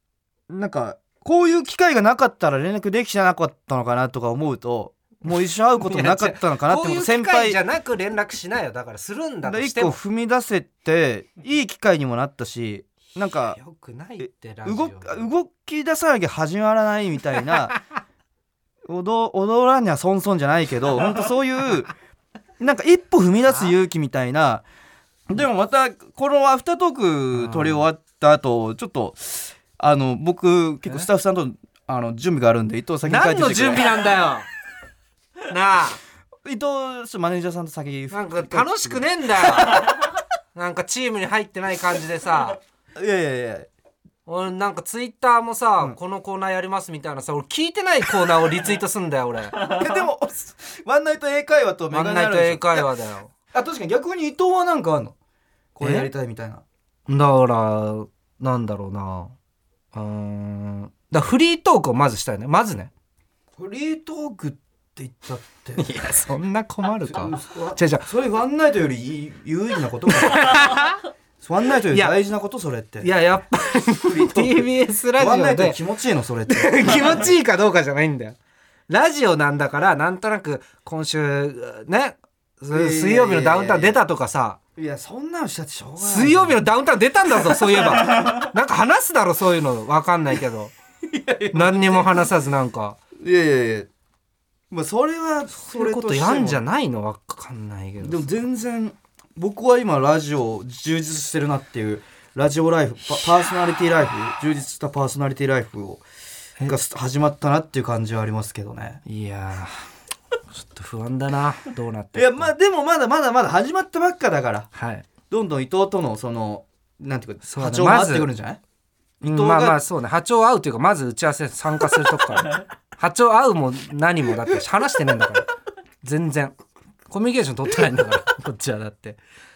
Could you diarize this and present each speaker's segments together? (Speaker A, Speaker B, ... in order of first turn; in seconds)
Speaker A: 0.5-7.6, 9.4-13.6, 14.2-17.8, 18.9-21.9, 22.6-24.6, 25.3-33.9, 36.4-39.9, 42.9-43.7, 49.6-52.9, 53.5-55.1, 55.7-56.6, 63.6-65.8, 67.1-70.6, 71.4-73.1, 74.0-77.3, 82.7-84.0, 84.8-86.6, 87.5-87.8, 91.1-92.3, 93.2-93.9, 94.7-96.6, 98.0-106.0, 106.6-109.0, 112.1-114.7, 115.3-118.6, 119.2-119.8
Speaker B: 5.8-10.0, 13.2-15.3, 23.4-23.8, 27.3-27.9, 33.0-34.5, 35.5-36.0, 38.1-40.0, 40.5-42.6, 44.2-49.6, 51.9-53.3, 55.8-56.1, 57.1-59.3, 59.9-62.9, 65.8-68.1, 70.1-71.0, 71.9-72.2, 73.0-75.8, 76.5-78.4, 78.9-84.6, 86.0-90.7, 91.5-93.0, 95.5-98.3, 103.0-103.3, 109.0-109.9, 110.5-112.5, 114.7-115.0, 117.4-118.3, 119.2-125.5, 126.0-126.5, 127.1-129.2